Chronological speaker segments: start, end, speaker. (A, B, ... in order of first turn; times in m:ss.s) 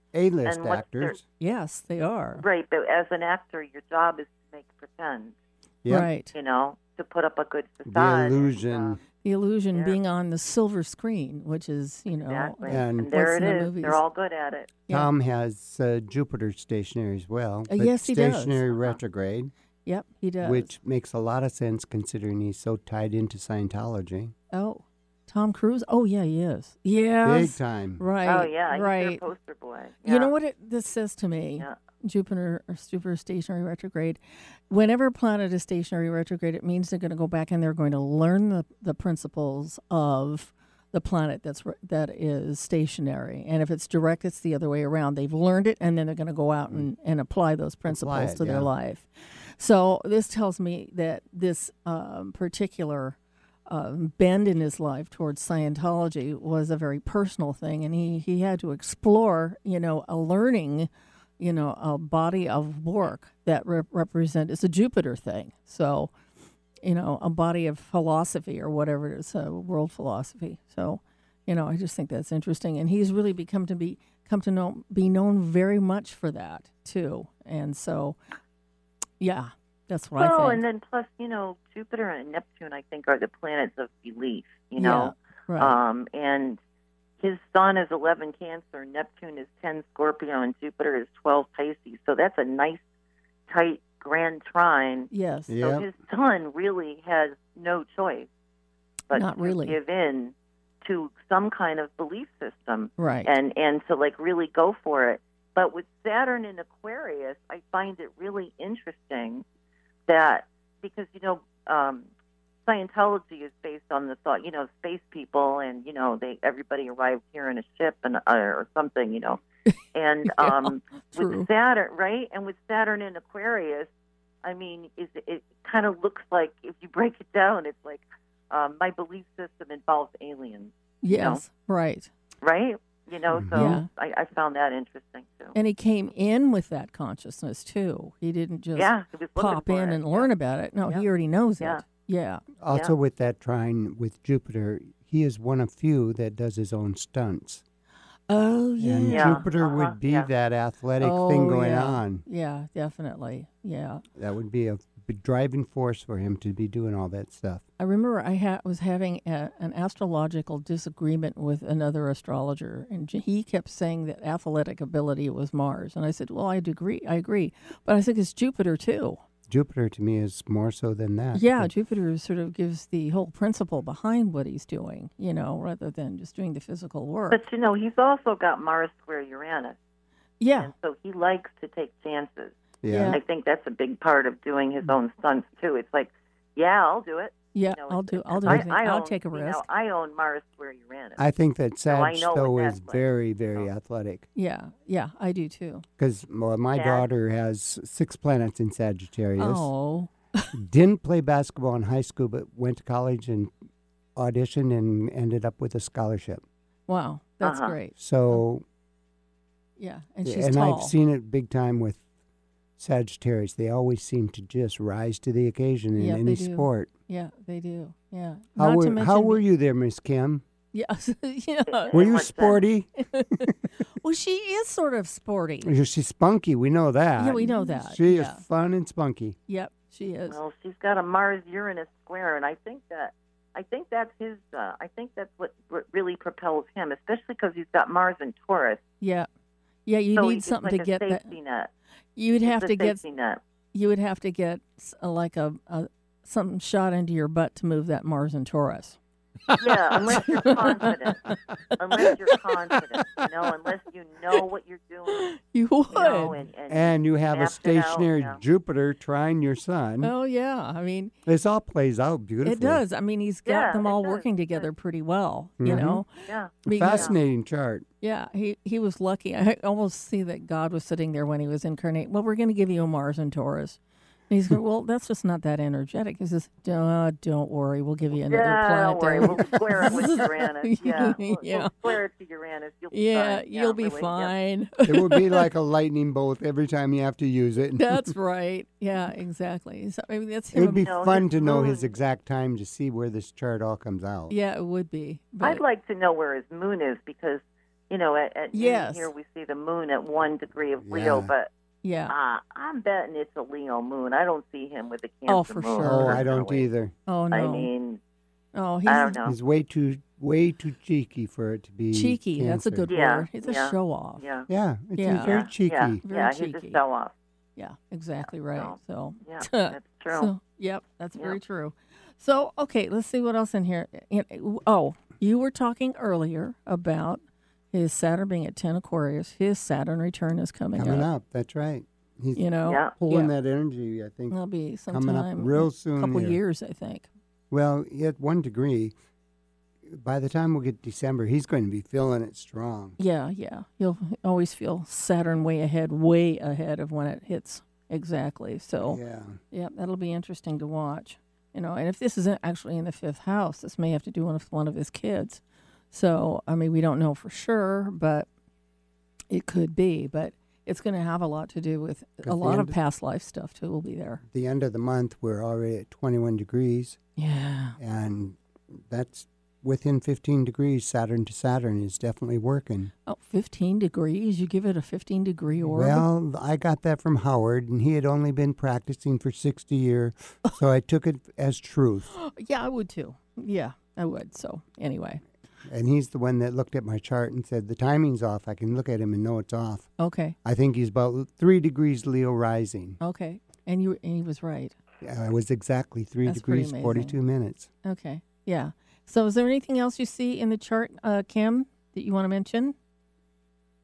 0:00.1-0:01.2 A
0:00.4-0:01.2 B
0:01.4-0:02.4 C
0:02.4-0:05.3 B
0:05.9-0:06.3 C
0:06.3-0:09.0 B
0:07.8-0:09.0 A
0:09.2-0:14.0 C
0:09.7-0:10.0 B
0:12.1-0:14.8 B
0:12.7-0:13.1 A
0:14.9-0:19.5 A
0:17.7-0:18.6 C
0:18.7-0:19.0 B
0:19.8-0:20.7 C
0:20.4-0:24.3 A
0:24.5-0:29.2 C
0:27.2-0:28.0 A
0:28.2-0:30.3 B
0:30.0-0:53.2 C
0:47.8-0:48.7 A
0:53.7-1:00.9 C
1:01.4-1:06.1 C
1:06.8-1:18.2 C
1:19.2-1:20.6 C
1:20.2-1:26.6 B
1:24.8-1:25.8 C
1:27.2-1:32.8 B
1:33.5-1:38.3 B
1:35.1-1:35.5 C
1:35.5-1:35.8 A
1:39.1-1:49.4 B
1:39.1-1:39.8 C
1:43.0-1:43.3 C
1:50.1-1:52.1 B
1:52.6-1:59.4 B
1:59.9-2:03.9 B
2:00.2-2:01.5 C
2:04.4-2:11.4 B
2:11.0-2:12.1 C
2:12.4-2:15.6 B
2:13.3-2:13.7 A
2:13.5-2:13.9 C
2:15.5-2:22.4 C
2:18.7-2:20.3 B
2:22.6-2:27.6 A
2:28.3-2:29.4 C
2:28.8-2:32.2 A
2:29.1-2:30.3 B
2:31.0-2:34.0 C
2:34.2-2:37.6 A
2:37.8-2:49.2 C
2:49.5-2:51.7 A
2:51.3-2:57.4 C
2:57.3-2:59.8 B
3:00.4-3:00.7 C
3:00.6-3:02.6 B
3:02.8-3:03.2 A
3:02.9-3:03.2 C
3:03.1-3:11.2 B
3:07.5-3:09.6 C
3:11.2-3:14.2 A
3:11.9-3:13.7 B
3:14.4-3:15.8 C
3:16.0-3:19.7 A
3:16.7-3:17.0 B
3:19.4-3:20.5 C
3:20.5-3:23.5 A
3:24.2-3:26.4 A
3:26.9-3:28.4 C
3:27.4-3:27.7 B
3:28.0-3:28.6 A
3:29.8-3:30.9 C
3:30.2-3:32.0 A
3:32.8-3:36.9 A
3:36.0-3:39.4 C
3:38.6-3:40.4 A
3:40.7-3:42.0 C
3:41.7-3:42.6 B
3:41.9-3:43.5 A
3:43.0-3:45.7 C
3:45.6-3:49.4 A
3:47.2-3:48.4 C
3:49.5-3:50.4 C
3:50.3-3:58.8 B
3:59.0-3:59.3 C
3:59.8-4:01.3 C
4:00.2-4:01.7 B
4:02.2-4:03.0 C
4:02.4-4:03.4 B
4:03.7-4:09.0 C
4:09.5-4:10.9 C
4:09.6-4:15.3 B
4:12.0-4:12.4 C
4:15.1-4:16.4 C
4:15.9-4:18.4 B
4:16.7-4:20.1 A
4:20.0-4:21.1 C
4:21.2-4:22.8 A
4:22.4-4:26.1 C
4:23.4-4:24.6 B
4:25.6-4:26.0 A
4:26.2-4:27.1 B
4:26.6-4:27.1 C
4:26.7-4:27.8 A
4:28.0-4:33.8 C
4:34.3-4:41.7 C
4:38.3-4:44.3 B
4:42.9-4:45.4 C
4:44.8-4:48.1 A
4:47.8-4:50.9 C
4:50.5-4:54.3 A
4:50.8-4:51.9 B
4:54.3-4:55.6 C
4:55.4-5:01.5 B
4:58.5-4:59.1 C
5:00.8-5:01.3 A
5:01.8-5:02.1 C
5:02.1-5:06.7 B
5:05.3-5:06.2 C
5:05.8-5:06.9 A
5:07.1-5:07.7 C
5:07.3-5:08.0 B
5:08.5-5:09.2 C
5:08.8-5:09.3 B
5:09.2-5:12.9 A
5:11.9-5:14.2 C
5:12.9-5:14.5 B
5:14.5-5:16.0 A
5:15.0-5:15.4 C
5:15.2-5:17.1 B
5:16.0-5:16.8 C
5:17.6-5:27.2 C
5:18.5-5:20.3 B
5:27.7-5:31.1 C
5:30.8-5:36.4 A
5:32.4-5:33.3 C
5:32.6-5:32.9 B
5:34.3-5:37.1 C
5:37.5-5:38.9 A
5:39.9-5:43.0 A
5:43.0-5:55.4 C
5:48.8-5:49.4 A
5:55.9-5:58.3 C
5:59.3-6:04.2 C
6:02.2-6:02.8 A
6:04.3-6:07.0 A
6:07.2-6:07.8 C
6:07.8-6:12.9 A
6:13.1-6:16.0 C
6:15.6-6:22.1 A
6:22.1-6:25.2 C
6:25.6-6:29.9 A
6:30.0-6:30.4 C
6:30.4-6:33.0 A
6:33.0-6:34.7 C
6:35.0-6:37.7 A
6:36.2-6:37.2 C
6:37.8-6:42.7 C